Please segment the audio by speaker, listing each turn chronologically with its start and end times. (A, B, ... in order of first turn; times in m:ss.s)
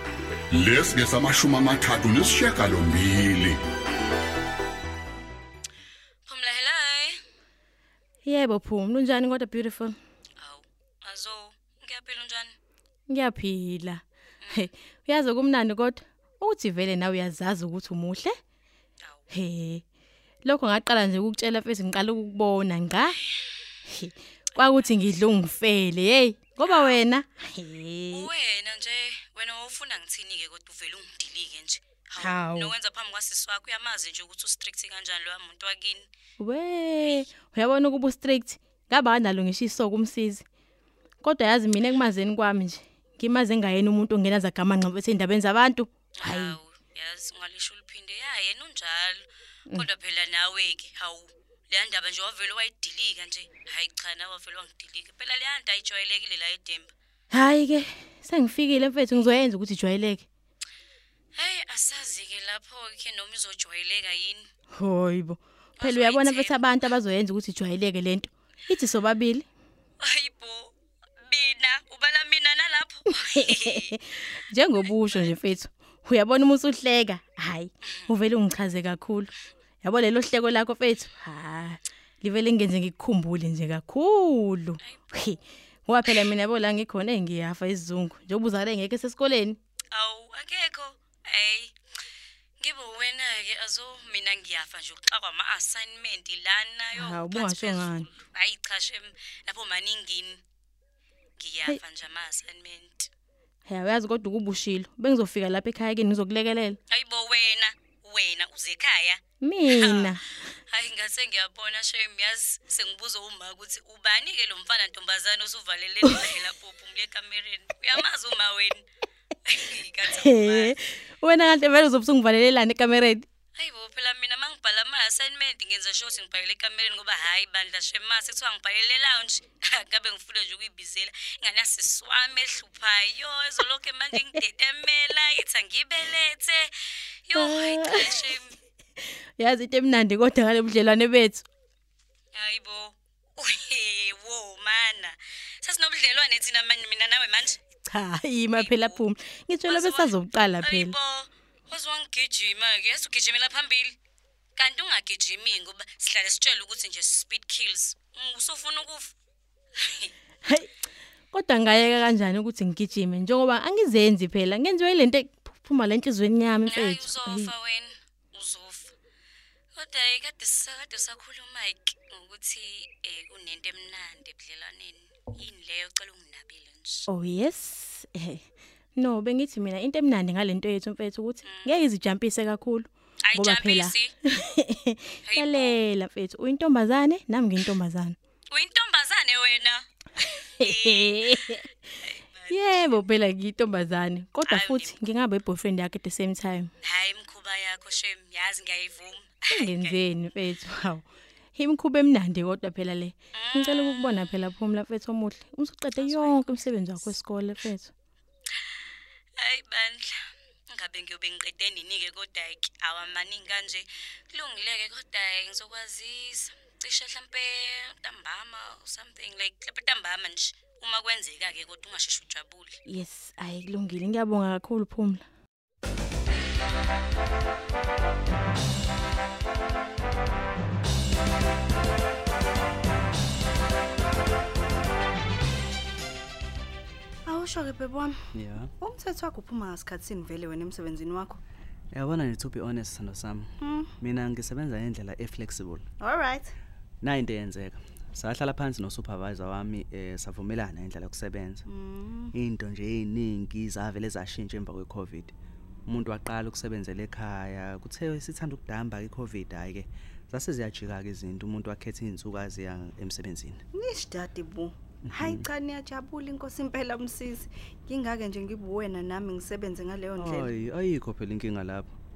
0:00.5-0:03.6 A
0:06.2-0:07.2 B
0:08.2-0:10.0 C
0:10.4-0:12.5 B
0:13.1-0:18.3 C
0:14.4-0:14.7 B
0:19.0-0:19.2 B
0:19.3-0:19.8 C
0:20.4-0:23.2 C
0:23.9-0:28.3 C
0:24.6-0:24.9 B
0:26.6-0:27.0 B
0:28.1-0:36.1 B
0:32.2-0:32.7 C
0:36.4-0:40.4 C
0:41.2-0:46.5 C
0:46.2-0:56.9 B
0:57.3-1:00.2 C
1:01.3-1:04.5 B
1:04.7-1:09.4 C
1:05.8-1:06.6 B
1:10.0-1:14.0 B
1:13.3-1:19.3 C
1:19.8-1:29.6 C
1:29.9-1:31.7 B
1:32.6-1:40.4 B
1:37.0-1:38.1 C
1:41.4-1:43.1 B
1:43.6-1:46.8 C
1:46.9-1:58.8 B
1:49.4-1:50.2 C
1:59.5-2:00.7 B
2:00.1-2:03.2 C
2:03.6-2:16.7 B
2:17.3-2:18.6 B
2:17.3-2:18.3 C
2:19.0-2:21.4 C
2:22.3-2:27.6 B
2:27.9-2:30.9 C
2:28.6-2:29.0 B
2:29.7-2:34.0 B
2:34.6-2:39.1 B
2:39.8-2:40.1 B
2:41.3-2:47.5 C
2:46.6-2:48.9 B
2:49.7-2:57.0 B
2:57.1-2:58.4 C
2:59.0-3:08.2 C
3:01.4-3:01.8 B
3:03.2-3:04.1 B
3:05.2-3:05.8 B
3:08.5-3:13.0 B
3:10.3-3:11.6 C
3:12.5-3:16.7 C
3:14.5-3:14.9 B
3:16.8-3:20.0 B
3:19.5-3:27.9 C
3:23.3-3:24.5 B
3:26.0-3:27.1 B
3:29.4-3:42.8 B
3:42.8-3:45.2 C
3:57.2-3:58.2 D
3:58.3-3:58.7 E
3:58.8-4:01.4 D
4:01.9-4:05.8 E
4:03.6-4:03.9 D
4:06.0-4:06.5 D
4:07.0-4:11.6 E
4:11.7-4:12.3 D
4:12.3-4:15.3 E
4:15.9-4:23.6 E
4:23.8-4:30.5 D
4:25.1-4:25.4 E
4:30.2-4:31.9 E